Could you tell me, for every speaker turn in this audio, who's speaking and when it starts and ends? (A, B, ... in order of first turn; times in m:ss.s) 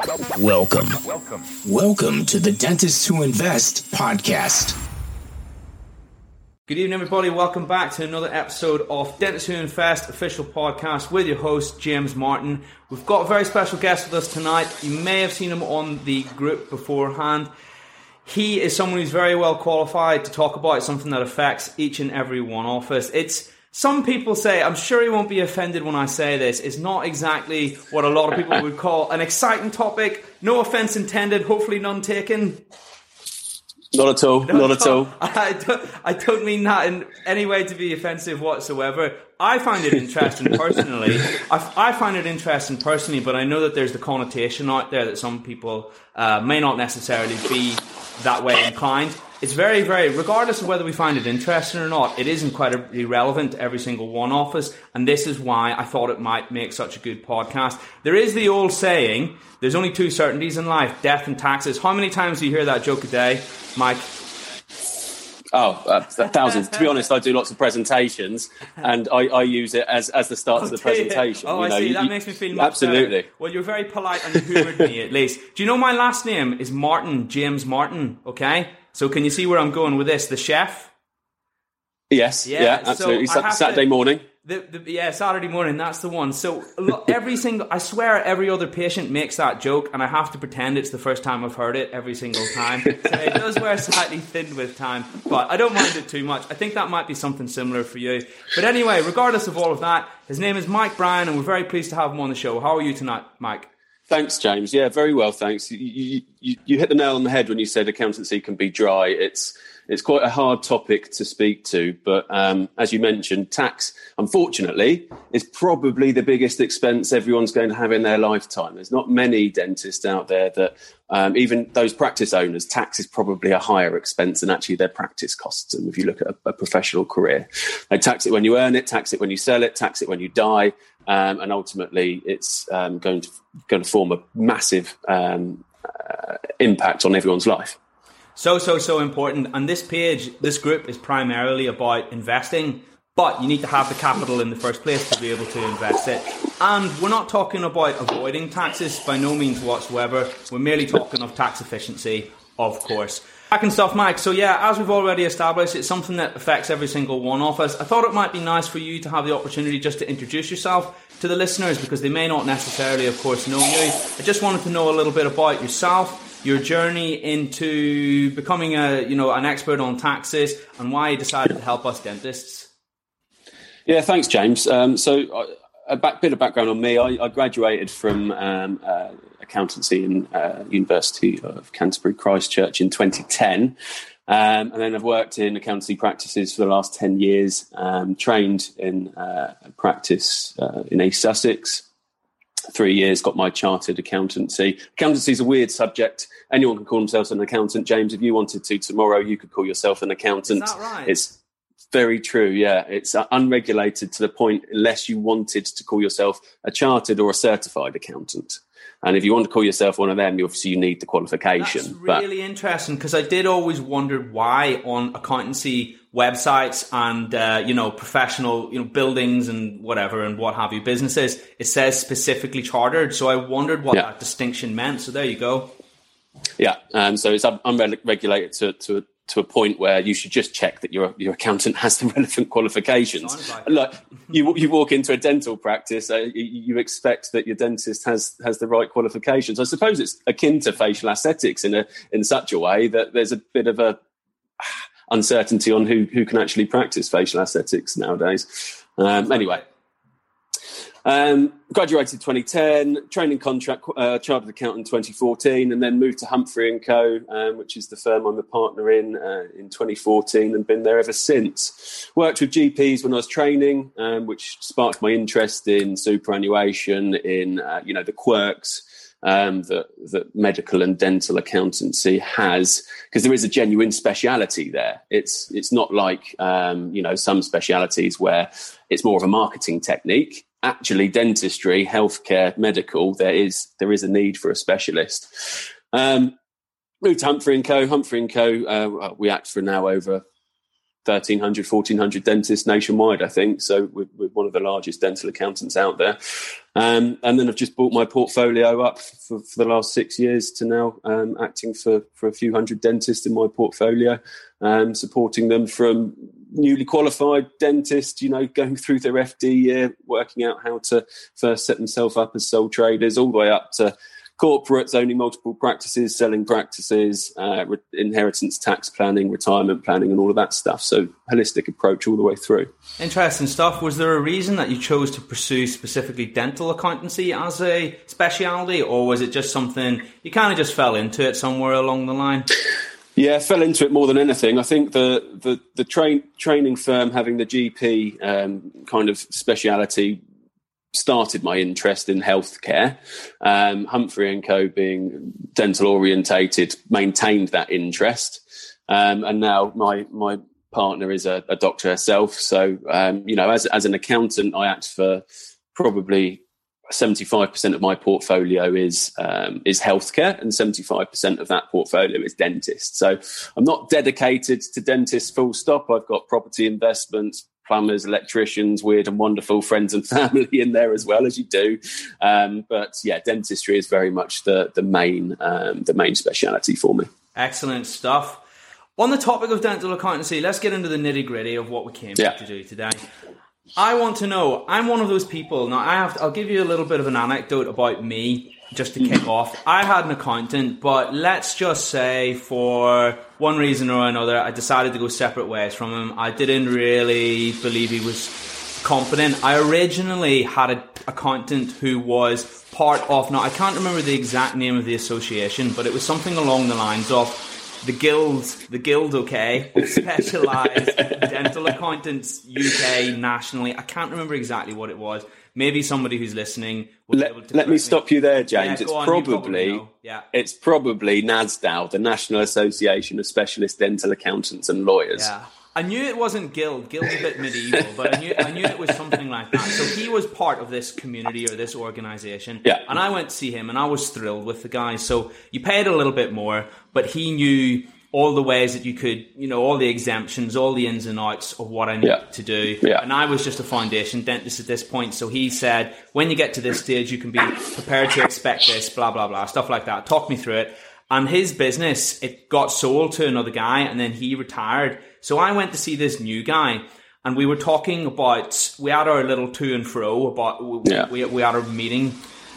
0:00.3-0:04.8 A
0:06.7-0:17.5 B
0:18.2-0:32.6 B
0:33.9-0:35.1 C
0:34.5-1:04.1 B
1:05.5-1:13.2 C
1:10.5-1:20.9 B
1:22.1-1:24.2 C
1:22.4-1:23.9 B
1:24.4-1:43.7 B
1:44.1-2:17.8 C
2:18.4-2:52.7 B
2:53.8-3:03.8 C
3:04.3-3:11.8 C
3:12.7-3:21.3 C
3:20.5-3:21.2 B
3:21.9-3:32.2 C
3:31.6-3:45.7 B
3:46.6-4:04.0 C
3:53.1-3:53.7 B
4:04.6-4:09.6 C
4:09.2-4:09.7 B
4:11.0-4:46.3 C
4:47.0-4:50.2 C
4:51.0-5:22.7 C
5:23.0-5:32.5 B
5:33.2-5:40.2 C
5:40.9-6:17.1 C
6:17.3-6:18.4 B
6:19.0-6:23.0 B
6:23.8-7:00.3 B
6:57.1-6:59.8 C
7:00.3-7:05.3 C
7:05.1-7:42.2 B